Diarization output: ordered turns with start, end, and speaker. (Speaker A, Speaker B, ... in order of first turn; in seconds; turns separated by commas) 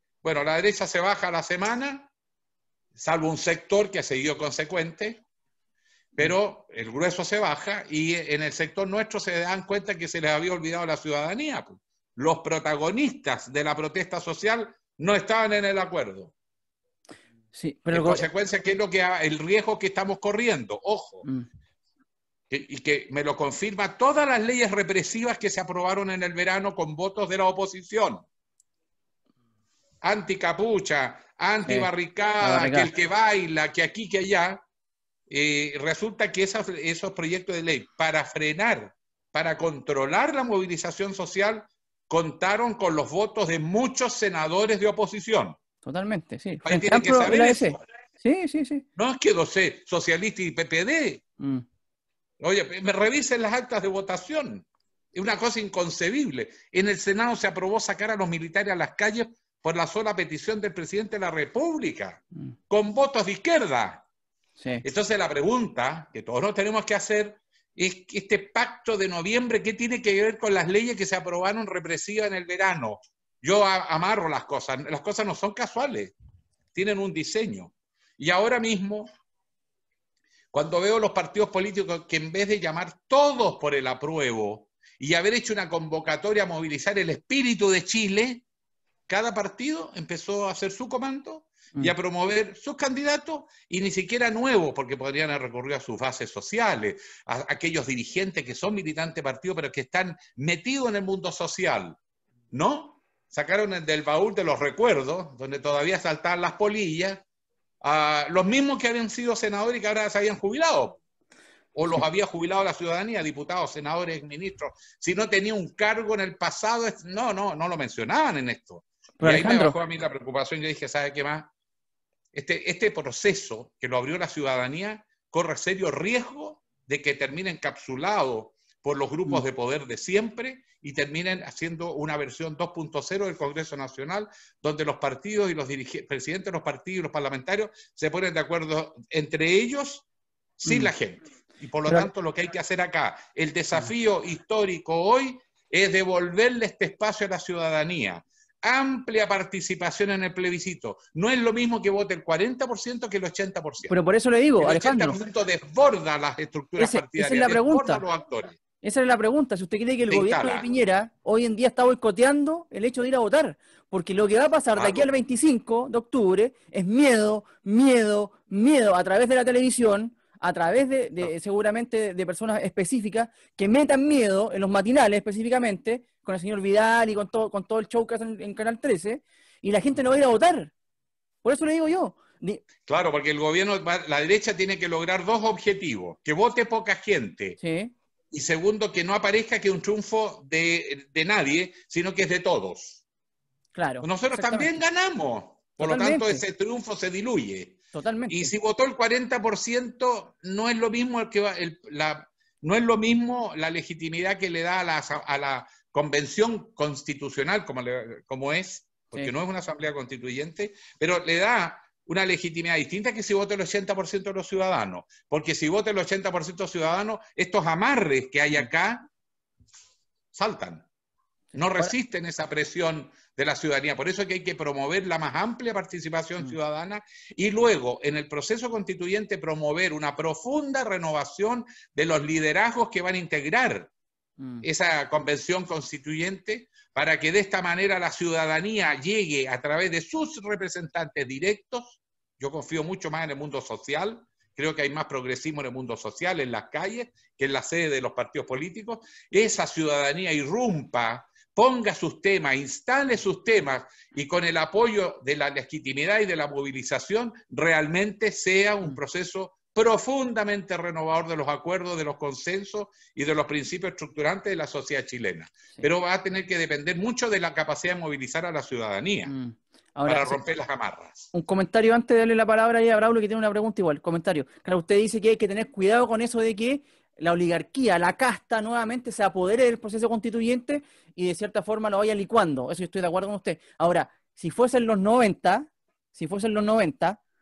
Speaker A: 0.2-2.1, Speaker A: 2.9-5.2, Speaker A: 6.1-16.3, Speaker B: 17.5-18.2, Speaker A: 17.9-21.2, Speaker A: 22.5-28.2, Speaker A: 30.0-34.6, Speaker B: 31.7-32.9, Speaker A: 35.3-45.6, Speaker B: 45.8-48.9, Speaker A: 46.6-47.8, Speaker A: 49.0-51.2, Speaker B: 51.4-51.6, Speaker A: 52.4-64.0, Speaker B: 64.6-64.8, Speaker A: 64.8-76.1, Speaker A: 76.7-79.1, Speaker A: 80.5-88.4, Speaker A: 89.1-102.0, Speaker A: 102.5-107.2, Speaker A: 107.8-111.0, Speaker A: 111.7-121.5, Speaker B: 119.2-119.7, Speaker A: 122.3-140.1, Speaker A: 140.6-153.9, Speaker B: 140.6-140.9, Speaker B: 153.9-155.2, Speaker A: 154.6-158.6, Speaker B: 156.8-158.0, Speaker B: 158.8-180.7, Speaker A: 160.1-160.7, Speaker A: 164.8-165.1, Speaker B: 181.4-182.6, Speaker A: 182.8-187.6, Speaker B: 187.6-187.9, Speaker A: 188.3-193.0, Speaker B: 193.7-194.7, Speaker A: 194.0-197.8, Speaker B: 195.8-196.4, Speaker B: 197.9-198.5, Speaker A: 198.3-219.1, Speaker A: 220.3-220.8, Speaker B: 221.5-221.9, Speaker A: 221.5-233.9, Speaker B: 234.4-234.6, Speaker A: 234.6-269.3, Speaker B: 269.2-270.4, Speaker A: 270.1-271.3, Speaker B: 271.3-287.2